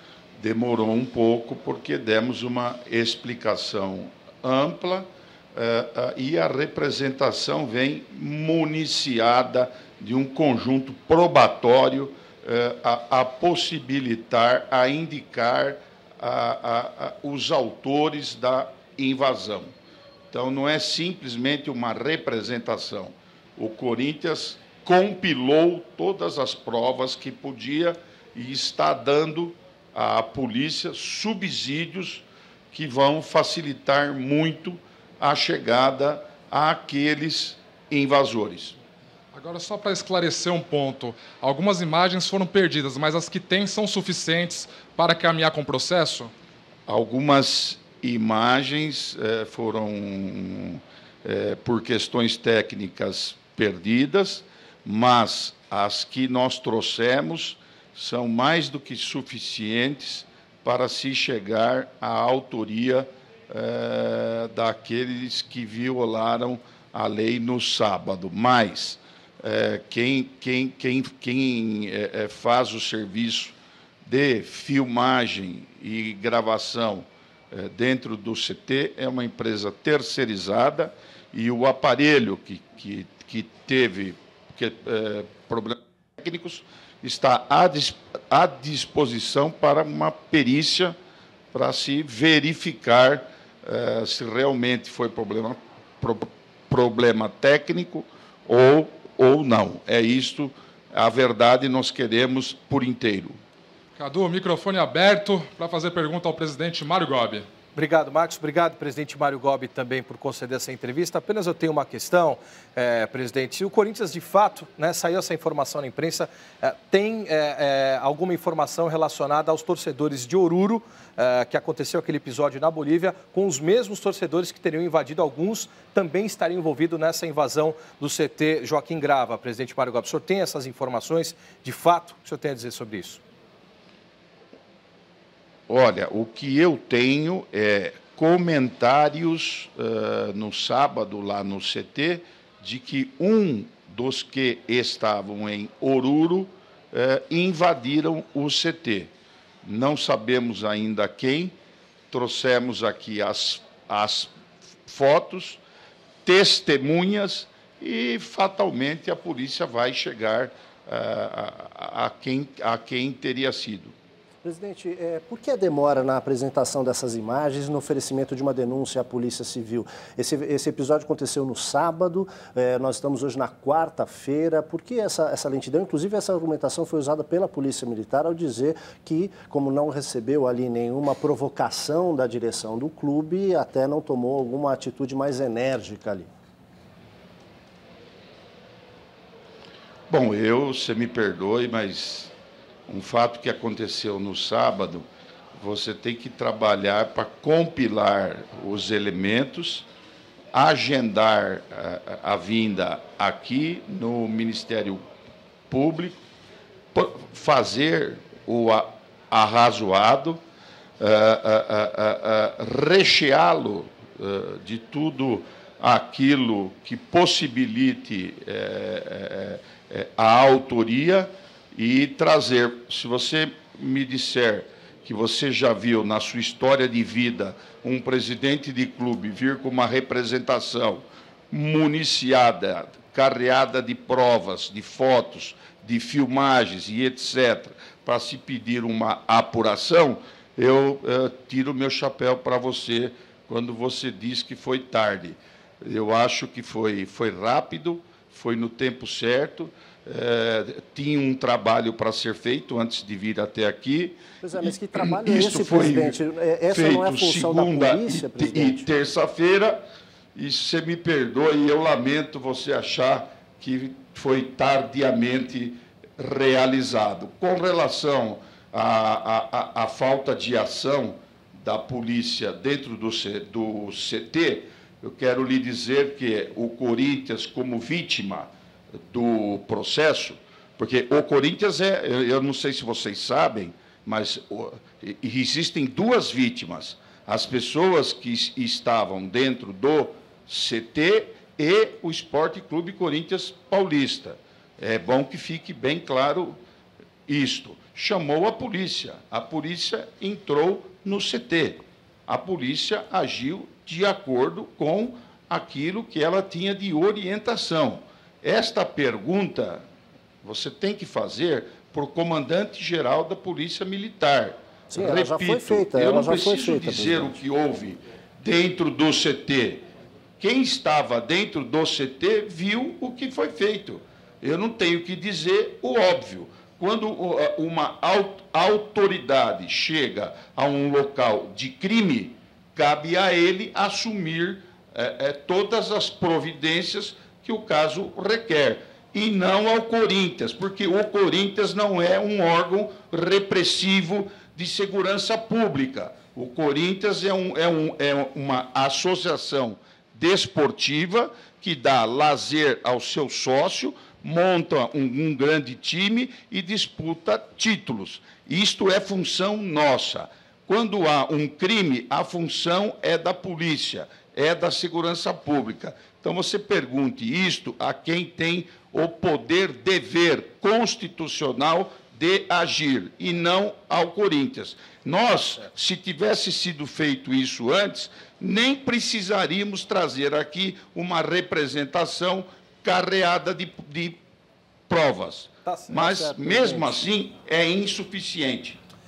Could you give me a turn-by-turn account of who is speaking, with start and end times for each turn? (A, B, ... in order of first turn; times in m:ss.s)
0:00.4-0:19.7 A
0:20.3-0:38.8 A
0:39.3-0:46.3 B
0:46.9-1:30.9 A
1:31.5-1:43.4 A
1:44.0-1:47.5 B
1:47.7-2:13.2 C
2:15.7-2:29.1 A
2:29.6-2:31.6 A
2:32.1-2:34.3 A
2:34.8-2:35.6 A
2:36.2-2:43.9 A
2:44.4-3:06.3 D
3:10.1-3:12.3 A
3:12.9-3:19.8 A
3:20.5-3:25.0 A
3:25.7-3:26.2 A
3:26.9-3:30.4 A
3:31.0-4:19.8 A
4:14.4-4:18.9 D
4:20.3-4:38.5 A
4:39.1-4:56.6 A
4:57.3-5:09.8 A
5:10.4-5:19.8 A
5:14.9-5:17.4 D
5:20.4-6:24.2 A
6:24.9-6:28.8 A
6:25.6-6:26.8 C
6:26.0-6:27.0 D